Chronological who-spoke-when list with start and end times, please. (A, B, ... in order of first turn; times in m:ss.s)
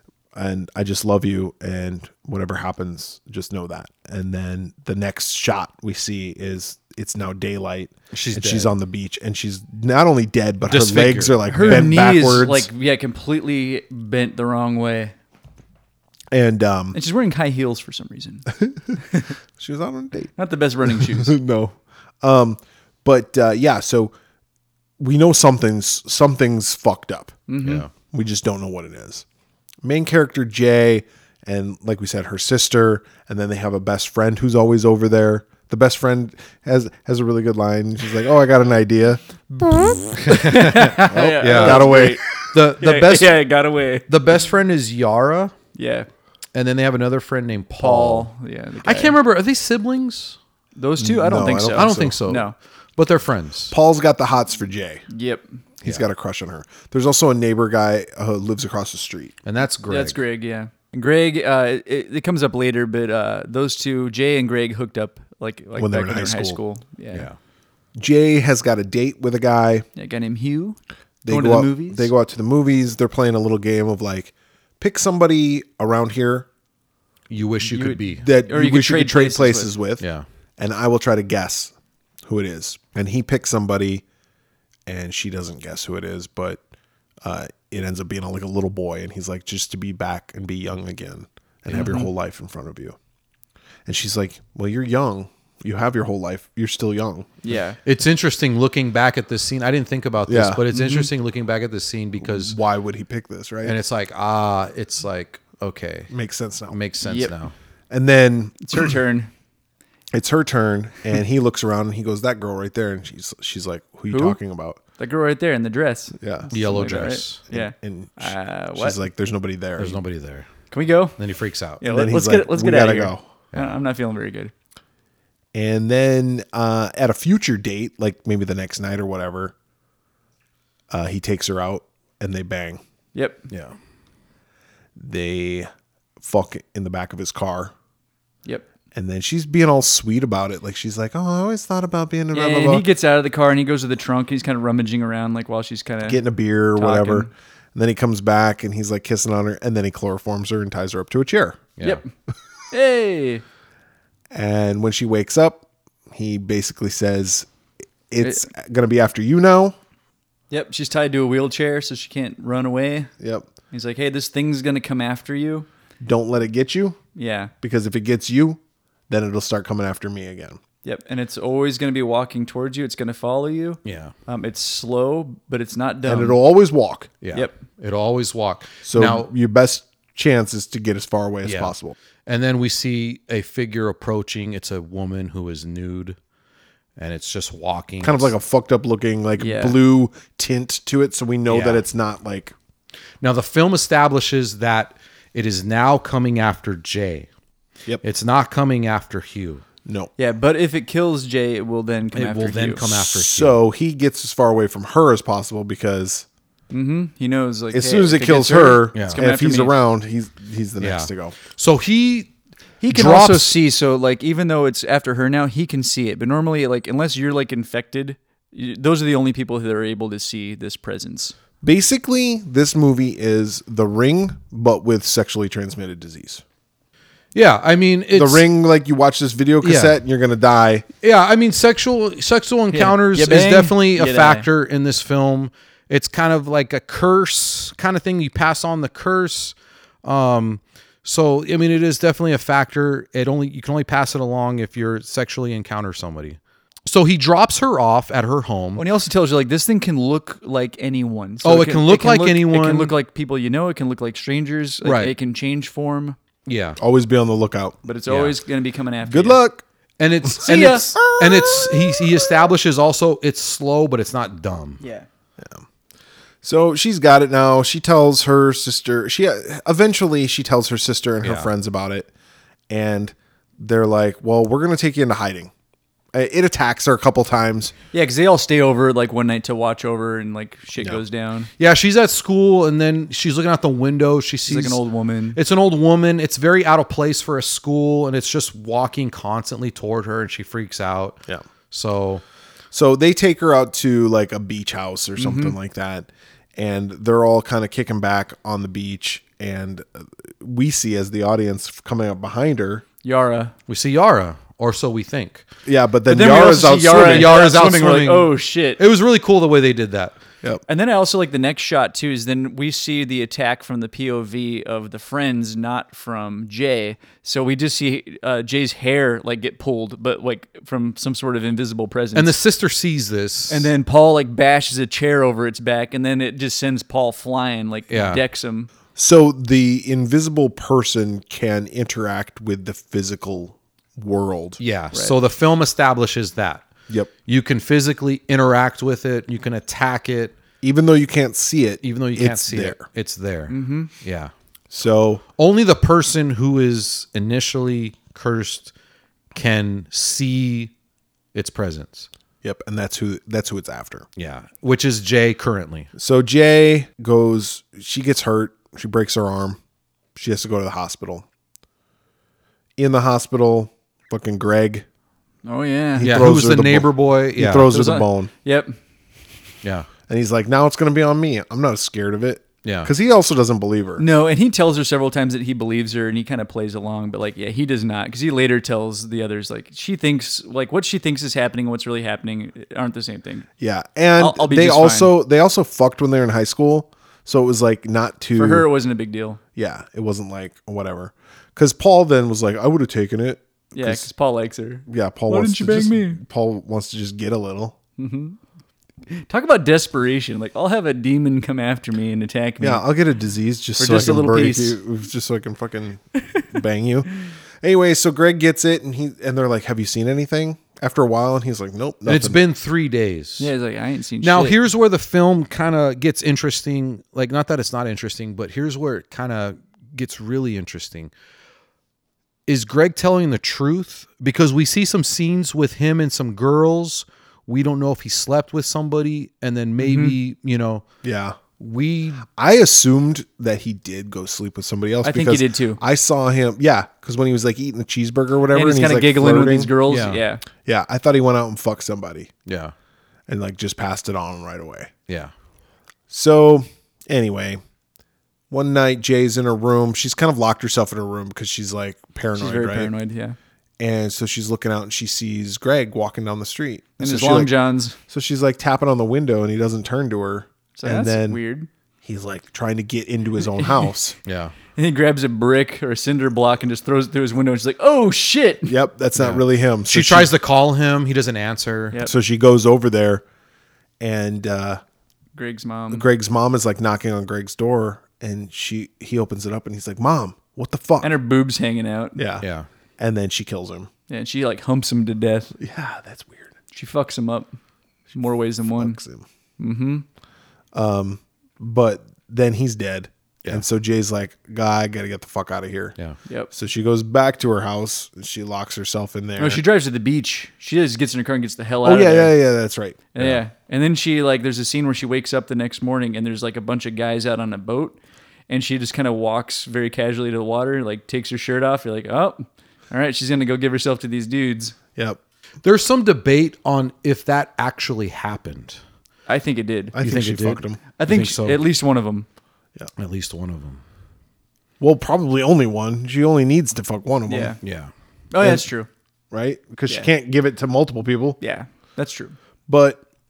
0:00.3-0:12.7 A
0:08.1-0:08.7 B
0:10.7-0:11.8 B
0:11.5-0:15.1 C
0:16.3-0:17.0 A
0:16.9-0:18.5 C
0:18.6-0:19.0 A
0:19.6-0:20.3 A
0:20.4-0:21.4 C
0:20.8-0:24.1 A
0:25.0-0:27.4 A
0:27.5-0:27.8 C
0:27.6-0:27.9 B
0:27.9-0:29.2 A
0:29.8-0:42.4 A
0:40.2-0:42.3 C
0:40.2-0:43.4 B
0:42.8-0:44.1 C
0:44.1-0:45.5 B
0:45.7-0:46.1 C
0:46.5-0:48.3 B
0:47.8-0:49.2 C
0:48.8-0:50.4 B
0:50.8-0:52.5 C
0:51.0-0:52.2 A
0:51.7-0:53.7 B
0:53.7-0:55.0 A
0:55.1-0:55.4 C
0:55.8-0:59.3 A
0:59.4-1:00.2 B
0:59.9-1:07.3 C
1:05.8-1:06.6 A
1:08.0-1:09.8 A
1:10.0-1:12.1 C
1:11.2-1:16.5 A
1:17.3-1:18.2 B
1:17.6-1:19.7 C
1:18.2-1:20.0 A
1:20.0-1:20.2 B
1:20.6-1:21.7 A
1:22.2-1:24.0 A
1:24.9-1:26.6 A
1:27.2-1:33.0 A
1:31.7-1:32.0 B
1:31.7-1:32.1 C
1:33.8-1:37.4 A
1:37.4-1:37.8 C
1:37.8-1:42.6 B
1:40.3-1:40.6 A
1:40.7-1:41.1 C
1:42.2-1:43.8 A
1:43.6-1:46.1 B
1:46.1-1:46.8 A
1:46.7-1:47.5 B
1:47.0-1:47.3 C
1:47.9-1:48.9 A
1:48.6-1:49.3 C
1:50.1-1:54.8 A
1:54.1-1:54.4 C
1:55.0-1:59.0 C
1:56.2-1:56.5 A
1:56.5-1:57.4 B
1:57.5-2:00.0 A
1:59.8-2:00.5 B
2:00.7-2:01.2 C
2:01.2-2:01.8 B
2:01.8-2:04.5 C
2:01.8-2:03.3 A
2:05.5-2:09.5 A
2:10.9-2:12.8 A
2:13.1-2:13.4 C
2:13.5-2:13.7 B
2:15.0-2:15.7 A
2:16.2-2:17.7 A
2:18.9-2:22.8 A
2:22.3-2:26.2 C
2:26.0-2:31.6 A
2:26.7-2:27.3 C
2:31.8-2:32.1 C
2:32.7-2:33.4 C
2:34.3-2:37.5 A
2:38.1-2:39.8 A
2:40.5-2:43.1 C
2:43.2-2:43.5 A
2:43.7-2:45.7 C
2:46.0-2:47.0 A
2:47.1-2:47.5 C
2:47.6-2:50.6 A
2:50.8-2:56.4 C
2:53.8-2:54.1 B
2:56.0-2:57.1 A
2:57.2-2:59.3 B
2:57.3-2:57.6 C
2:58.8-3:02.0 A
3:01.4-3:01.7 B
3:02.2-3:06.2 B
3:07.0-3:08.3 B
3:08.0-3:12.5 A
3:09.4-3:09.8 C
3:11.5-3:11.8 B
3:13.2-3:17.3 B
3:18.0-3:19.6 B
3:19.8-3:20.1 A
3:20.2-3:22.8 C
3:22.1-3:23.6 B
3:22.9-3:26.2 A
3:26.7-3:29.7 C
3:27.7-3:31.4 A
3:28.9-3:29.2 B
3:30.8-3:32.3 B
3:32.8-3:41.4 C
3:32.9-3:33.6 B
3:41.6-3:46.4 A
3:47.3-3:48.5 B
3:48.1-3:50.8 A
3:49.6-3:50.0 B
3:51.0-4:08.8 B
3:52.7-3:54.4 C
4:08.8-4:16.2 C
4:11.4-4:12.9 B
4:14.8-4:15.1 B
4:16.4-4:16.8 B
4:16.8-4:17.8 A
4:17.8-4:19.4 C
4:18.1-4:18.4 B
4:19.0-4:19.6 A
4:20.0-4:24.8 B
4:20.4-4:21.0 C
4:21.0-4:22.4 A
4:24.8-4:25.0 C
4:26.4-4:32.1 A
4:31.2-4:31.5 B
4:32.7-4:35.5 A
4:36.1-4:37.7 A
4:37.9-4:41.5 C
4:41.6-4:44.8 B
4:44.4-4:45.4 C
4:45.3-4:51.2 B
4:51.7-4:52.2 B
4:52.7-5:02.8 A
4:55.2-4:55.6 C
5:03.0-5:03.5 C
5:03.7-5:05.4 B
5:05.6-5:07.4 A
5:06.1-5:08.8 C
5:06.8-5:10.1 B
5:10.7-5:22.4 C
5:22.1-5:23.7 B
5:23.5-5:28.7 C
5:27.9-5:28.2 B
5:28.9-5:34.6 A
5:34.6-5:36.7 B
5:37.2-5:40.3 B
5:40.6-5:42.8 A
5:41.8-5:44.3 B
5:43.5-5:43.9 C
5:44.7-5:45.2 A
5:45.4-5:48.7 B
5:49.3-5:50.7 B
5:51.3-5:52.1 B
5:52.4-5:54.0 A
5:54.2-5:55.9 B
5:56.0-5:59.6 A
6:00.1-6:01.2 A
6:02.8-6:04.8 A
6:05.4-6:06.1 C
6:06.0-6:08.3 A
6:06.0-6:07.7 B
6:07.7-6:08.8 C
6:09.6-6:09.9 B
6:10.1-6:14.0 A
6:12.6-6:12.9 B
6:14.0-6:23.5 C
6:23.6-6:28.7 A
6:24.2-6:25.1 C
6:28.3-6:29.4 C
6:29.6-6:34.1 A
6:33.7-6:36.2 C
6:34.9-6:37.8 A
6:38.0-6:38.4 C
6:39.1-6:42.8 C
6:42.6-6:47.1 A
6:43.8-6:44.8 C
6:47.6-6:52.4 A
6:52.0-6:53.5 B
6:53.4-6:54.6 C
6:54.2-7:01.1 B
7:02.5-7:10.8 B
7:09.8-7:10.1 C
7:11.0-7:11.4 A
7:11.6-7:12.2 B
7:12.2-7:19.7 A
7:15.0-7:15.8 C
7:18.5-7:20.4 C
7:19.9-7:20.2 B
7:20.6-7:22.3 A
7:22.4-7:22.7 B
7:23.3-7:24.9 A
7:26.1-7:27.6 A
7:28.5-7:32.9 A
7:32.3-7:33.4 C
7:33.8-7:37.5 A
7:37.0-7:38.0 C
7:38.1-7:41.4 A
7:40.7-7:41.7 C
7:42.0-7:44.2 A
7:43.4-7:43.9 C
7:44.2-7:44.5 B
7:44.7-7:48.7 C
7:48.6-7:50.3 A
7:49.2-7:52.0 B
7:52.0-7:53.2 A
7:54.0-7:54.8 A
7:55.3-7:56.0 C
7:55.9-8:01.1 A
8:01.0-8:02.2 C
8:02.2-8:02.4 A
8:02.4-8:02.7 B
8:03.0-8:03.9 A
8:04.1-8:05.5 C
8:05.6-8:06.5 A
8:06.7-8:07.5 C
8:08.1-8:09.0 C
8:08.8-8:09.2 A
8:09.6-8:10.0 C
8:10.7-8:16.0 A
8:16.5-8:19.6 A
8:19.4-8:22.3 C
8:21.8-8:23.0 A
8:23.1-8:28.0 C
8:28.5-8:34.7 C
8:35.6-8:38.8 B
8:39.3-8:40.0 C
8:39.9-8:40.8 A
8:40.0-8:41.6 B
8:41.0-8:42.3 C
8:43.0-8:43.8 B
8:44.8-8:47.6 A
8:47.3-8:47.6 C
8:47.6-8:47.9 B
8:48.3-8:48.9 C
8:48.4-8:48.6 A
8:49.3-8:51.4 A
8:51.4-8:52.4 C
8:52.7-8:53.0 A